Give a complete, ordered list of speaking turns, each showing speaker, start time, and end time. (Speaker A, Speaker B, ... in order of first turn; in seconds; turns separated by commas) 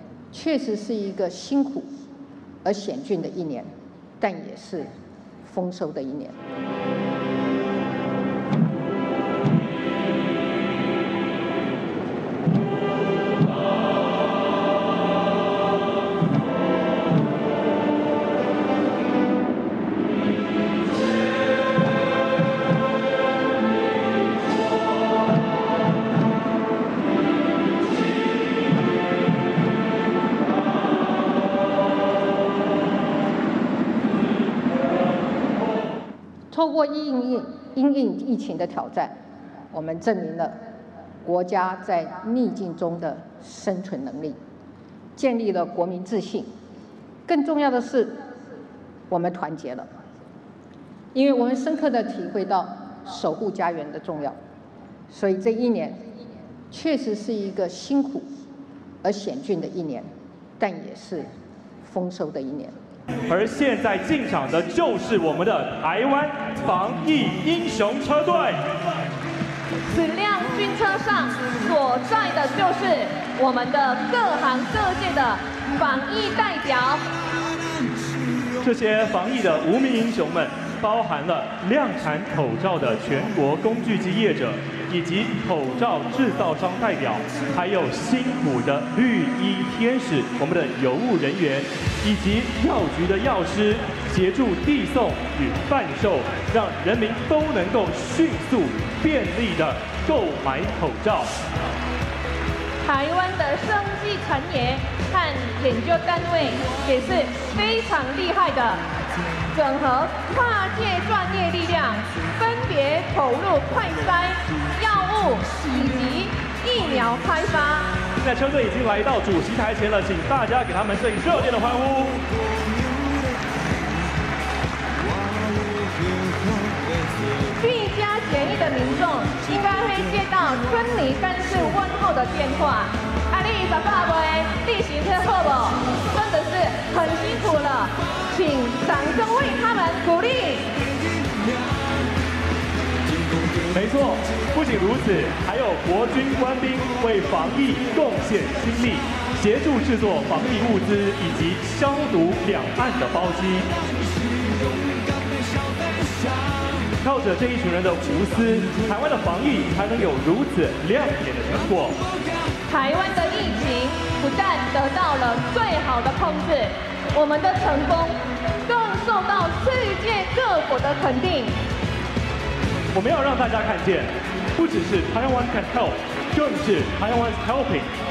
Speaker A: 0.3-1.9, Speaker A: 2.6-4.9, Speaker A: 5.5-6.4, Speaker A: 36.5-39.2, Speaker A: 39.7-40.6, Speaker A: 41.2-44.4, Speaker A: 45.2-46.5, Speaker A: 47.3-48.2, Speaker A: 49.1-49.9, Speaker A: 51.1-54.4, Speaker A: 55.1-56.0, Speaker A: 56.7-58.3, Speaker A: 59.0-61.3, Speaker A: 61.8-62.8, Speaker B: 63.3-68.6, Speaker C: 69.9-77.0, Speaker B: 78.6-101.3, Speaker C: 102.8-108.8, Speaker C: 109.5-118.0, Speaker B: 118.2-122.2, Speaker C: 127.6-140.7, Speaker B: 143.7-153.7, Speaker B: 157.0-162.0, Speaker C: 162.7-171.6, Speaker B: 172.9-177.9